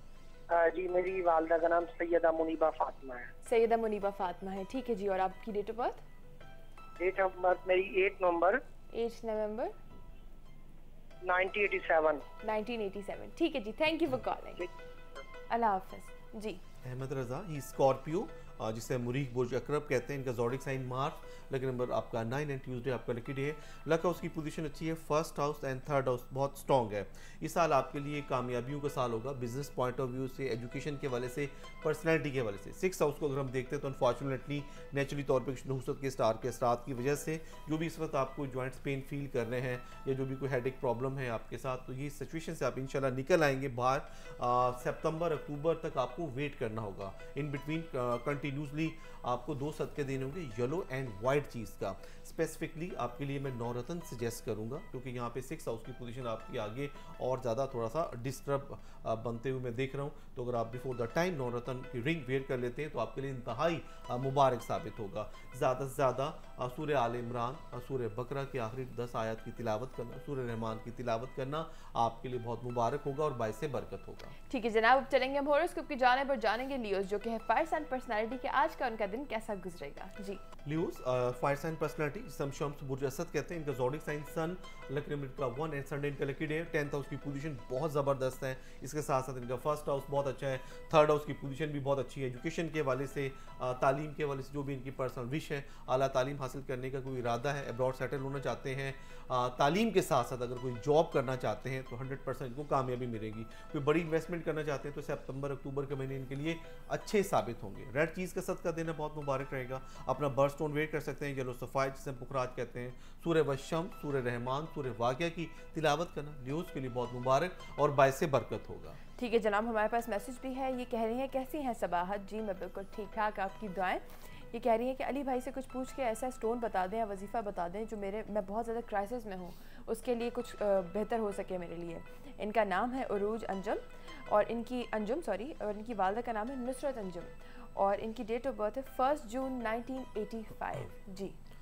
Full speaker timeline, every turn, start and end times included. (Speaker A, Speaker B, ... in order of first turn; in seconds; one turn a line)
Speaker A: 0.5-3.3
Speaker B: 3.5-6.0
Speaker A: 7.0-8.6
Speaker B: 8.9-9.7
Speaker A: 11.2-12.2
Speaker B: 12.4-14.7
Speaker A: 14.6-15.2
Speaker B: 15.5-16.6
Speaker C: 16.8-74.3
Speaker B: 74.5-80.4
Speaker C: 80.6-119.0
Speaker B: 119.2-141.4